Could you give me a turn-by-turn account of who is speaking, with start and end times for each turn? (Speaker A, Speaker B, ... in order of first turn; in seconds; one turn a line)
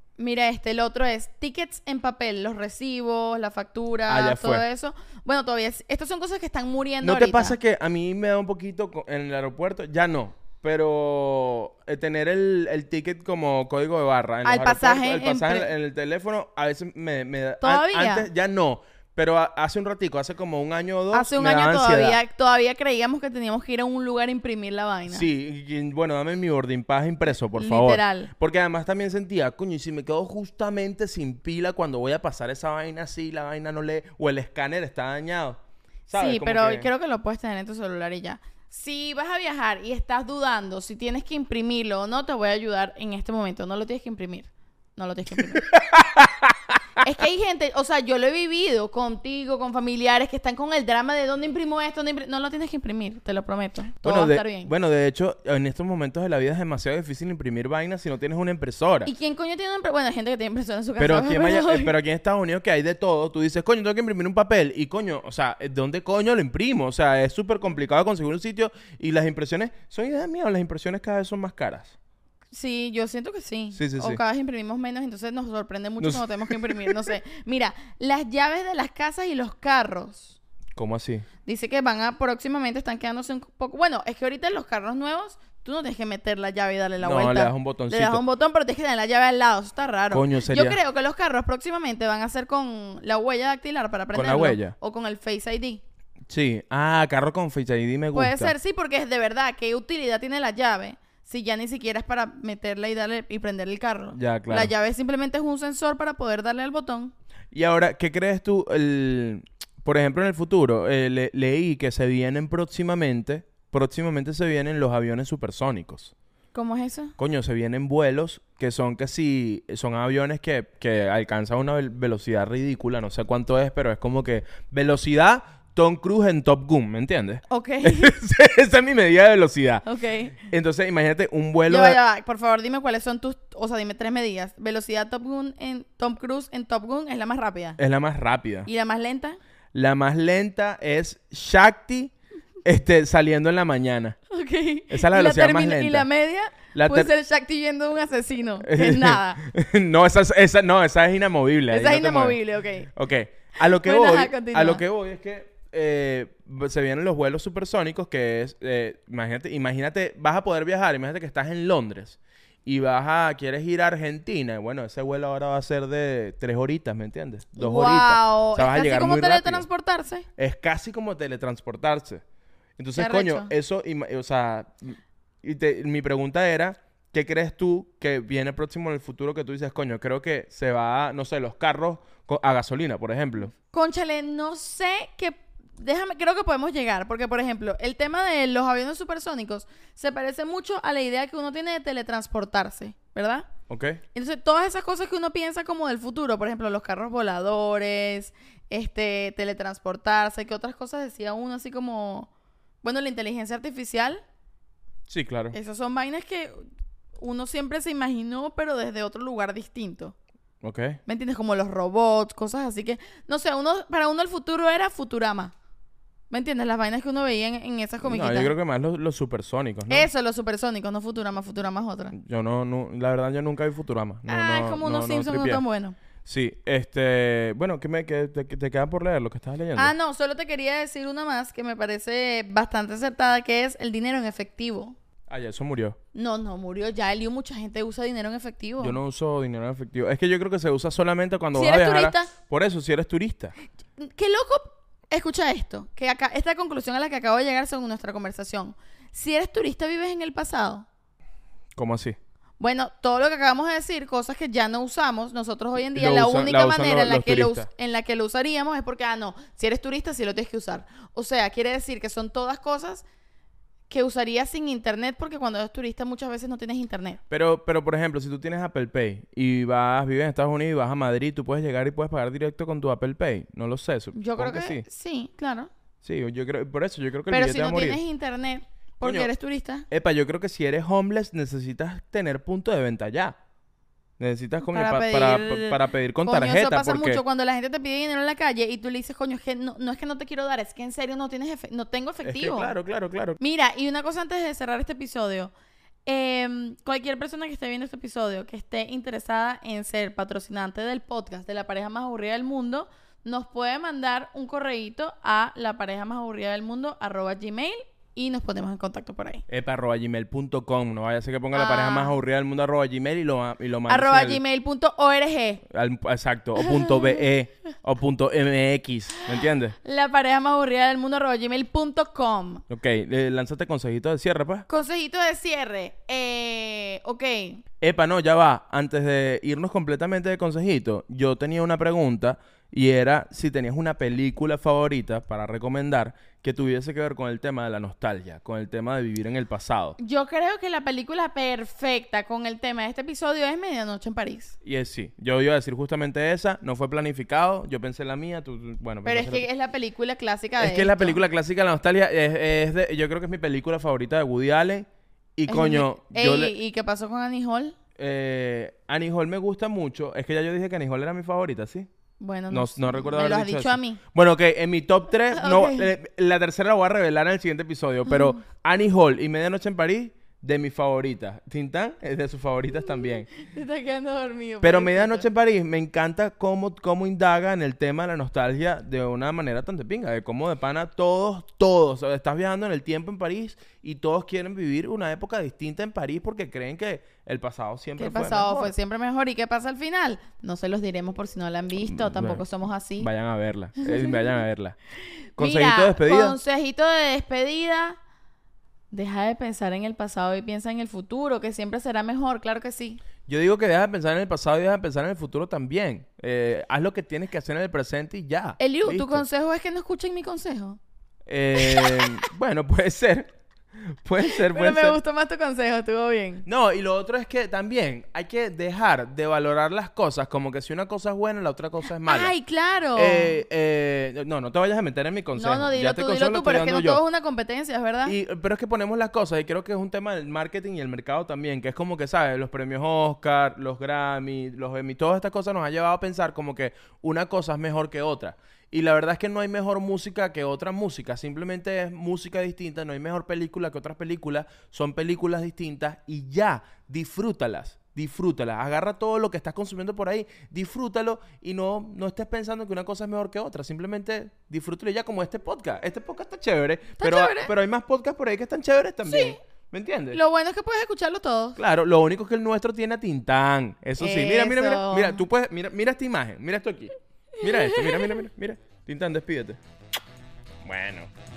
Speaker A: 0.2-7.6
Speaker B: 4.1-4.7
Speaker B: 7.0-22.2
Speaker A: 14.4-15.7
Speaker A: 17.6-18.3
Speaker A: 21.1-25.3
Speaker B: 25.1-36.9
Speaker A: 27.2-28.3
Speaker A: 36.1-45.7
Speaker B: 45.5-46.7
Speaker A: 47.0-54.7
Speaker B: 54.0-59.1
Speaker A: 59.0-61.9
Speaker B: 61.0-72.0
Speaker A: 72.5-80.4
Speaker B: 73.7-74.2
Speaker B: 76.0-77.0
Speaker B: 80.8-81.3
Speaker A: 81.5-95.8
Speaker B: 87.0-88.2
Speaker B: 90.1-90.8
Speaker B: 94.1-94.7
Speaker B: 96.3-98.5
Speaker A: 98.1-107.1
Speaker B: 104.1-104.7
Speaker B: 107.5-116.1
Speaker A: 116.5-117.2
Speaker B: 117.2-129.9
Speaker A: 127.5-128.1
Speaker A: 129.9-130.4
Speaker B: 130.4-132.0
Speaker A: 131.7-137.8
Speaker B: 137.8-138.7
Speaker A: 138.7-139.4
Speaker B: 139.7-142.1
Speaker B: 142.7-144.2
Speaker A: 144.3-149.4
Speaker B: 144.9-146.1
Speaker B: 146.7-147.1
Speaker B: 148.6-169.7
Speaker A: 151.7-152.9
Speaker A: 153.6-154.8
Speaker A: 167.6-170.3
Speaker B: 170.4-172.2
Speaker B: 172.8-183.5
Speaker A: 173.0-173.5
Speaker A: 183.7-193.5
Speaker B: 193.7-194.0
Speaker A: 194.2-202.3
Speaker A: 202.8-204.2
Speaker B: 205.1-205.6
Speaker A: 205.5-206.7
Speaker A: 207.2-210.2
Speaker B: 210.6-211.0
Speaker A: 211.1-215.5
Speaker A: 216.3-218.5
Speaker B: 218.0-220.1
Speaker A: 219.9-222.1
Speaker B: 222.1-225.6
Speaker A: 224.3-226.0
Speaker B: 226.2-229.9
Speaker A: 229.8-235.0
Speaker B: 235.3-236.0
Speaker A: 236.1-239.0
Speaker B: 238.8-243.6
Speaker A: 241.5-242.3
Speaker A: 244.0-250.9
Speaker B: 251.8-252.2
Speaker A: 252.6-263.1
Speaker B: 255.9-257.7
Speaker A: 263.9-267.2
Speaker B: 267.3-274.8
Speaker A: 274.1-275.7
Speaker B: 276.0-278.0
Speaker A: 277.3-279.9
Speaker B: 279.0-279.3
Speaker B: 279.9-283.4
Speaker B: 284.2-287.2
Speaker A: 284.6-292.7
Speaker B: 292.2-293.4
Speaker A: 293.4-295.5
Speaker A: 296.1-309.4
Speaker B: 309.5-314.4
Speaker A: 311.5-312.2
Speaker A: 313.9-315.6
Speaker B: 315.7-319.8
Speaker A: 316.6-317.2
Speaker A: 319.3-322.6
Speaker B: 322.7-324.7
Speaker A: 324.7-327.6
Speaker B: 327.8-340.0
Speaker A: 340.0-344.6
Speaker B: 344.6-349.4
Speaker A: 349.1-351.2
Speaker B: 350.6-356.5
Speaker A: 355.5-357.8
Speaker B: 358.0-361.9
Speaker A: 362.2-364.0
Speaker B: 362.5-373.3
Speaker A: 365.3-365.9
Speaker A: 368.1-368.4
Speaker A: 373.1-375.3
Speaker B: 374.6-388.7
Speaker A: 388.0-393.1
Speaker B: 391.8-392.4
Speaker B: 393.0-394.8
Speaker A: 393.8-394.2
Speaker B: 395.4-396.4
Speaker A: 395.4-398.0
Speaker A: 398.9-403.0
Speaker B: 403.3-409.2
Speaker A: 408.6-410.8
Speaker B: 411.3-415.0
Speaker A: 411.6-412.1
Speaker A: 414.3-416.4
Speaker B: 416.5-422.3
Speaker A: 422.0-423.4
Speaker B: 422.9-427.0
Speaker A: 425.4-428.1
Speaker B: 428.1-460.2
Speaker A: 457.0-457.5
Speaker A: 459.1-459.4
Speaker A: 460.1-461.6
Speaker B: 461.6-469.6
Speaker A: 464.0-465.2
Speaker A: 467.4-468.2
Speaker B: 470.6-471.1